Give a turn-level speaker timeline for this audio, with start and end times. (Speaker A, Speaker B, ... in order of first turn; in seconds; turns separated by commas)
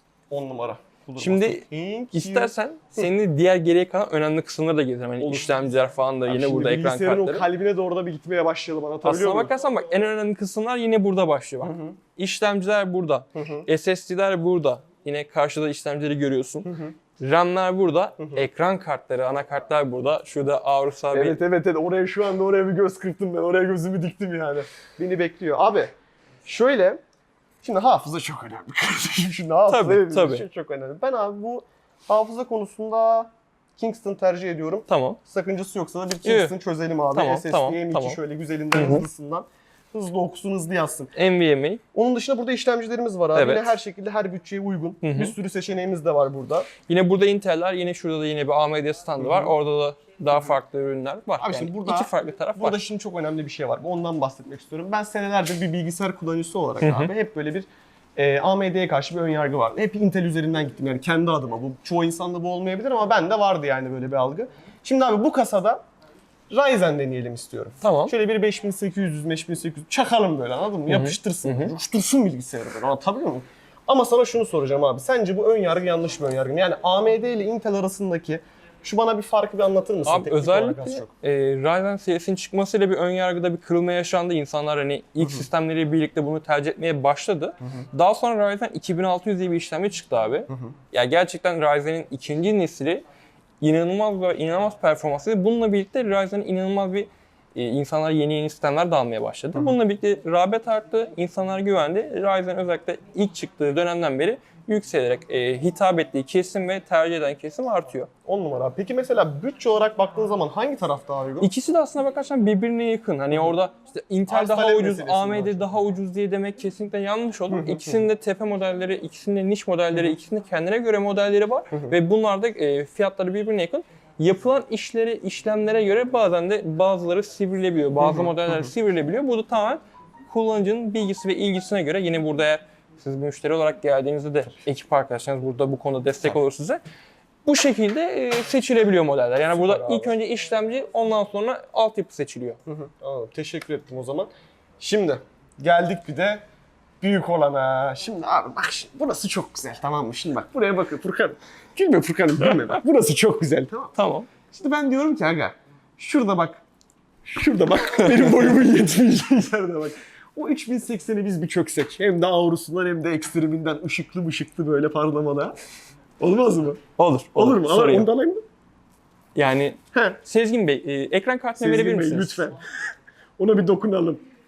Speaker A: 0.3-2.5, Speaker B: 1.2-7.5, Speaker A: 5.2-9.5, Speaker B: 9.0-21.4, Speaker A: 11.6-12.0, Speaker A: 13.3-13.7, Speaker A: 16.6-16.9, Speaker A: 21.1-25.9, Speaker A: 26.4-27.0, Speaker A: 27.6-41.1, Speaker B: 29.7-30.5, Speaker B: 34.9-35.2, Speaker B: 36.2-36.5, Speaker B: 37.1-38.2, Speaker B: 38.7-39.1, Speaker B: 41.1-41.8, Speaker A: 41.9-46.7, Speaker B: 43.3-43.7, Speaker B: 45.0-45.4, Speaker B: 46.9-52.8, Speaker A: 49.2-49.5, Speaker A: 51.4-65.8, Speaker B: 56.8-57.1, Speaker A: 66.5-81.1, Speaker B: 67.8-68.1, Speaker B: 70.9-71.7, Speaker B: 80.0-93.0, Speaker A: 90.5-90.8, Speaker B: 93.6-108.1, Speaker A: 108.3-111.5, Speaker B: 111.4-136.8, Speaker A: 114.3-115.8, Speaker A: 117.5-118.0, Speaker A: 128.0-128.7, Speaker B: 137.4-142.6, Speaker A: 139.5-140.1, Speaker A: 142.7-146.4, Speaker A: 147.0-156.6, Speaker B: 154.0-154.3, Speaker A: 157.2-165.6, Speaker B: 158.0-158.6, Speaker A: 166.2-166.8, Speaker B: 167.0-168.1, Speaker A: 167.4-168.4, Speaker B: 169.3-172.4, Speaker A: 169.9-170.2, Speaker A: 171.6-172.6, Speaker A: 173.4-174.2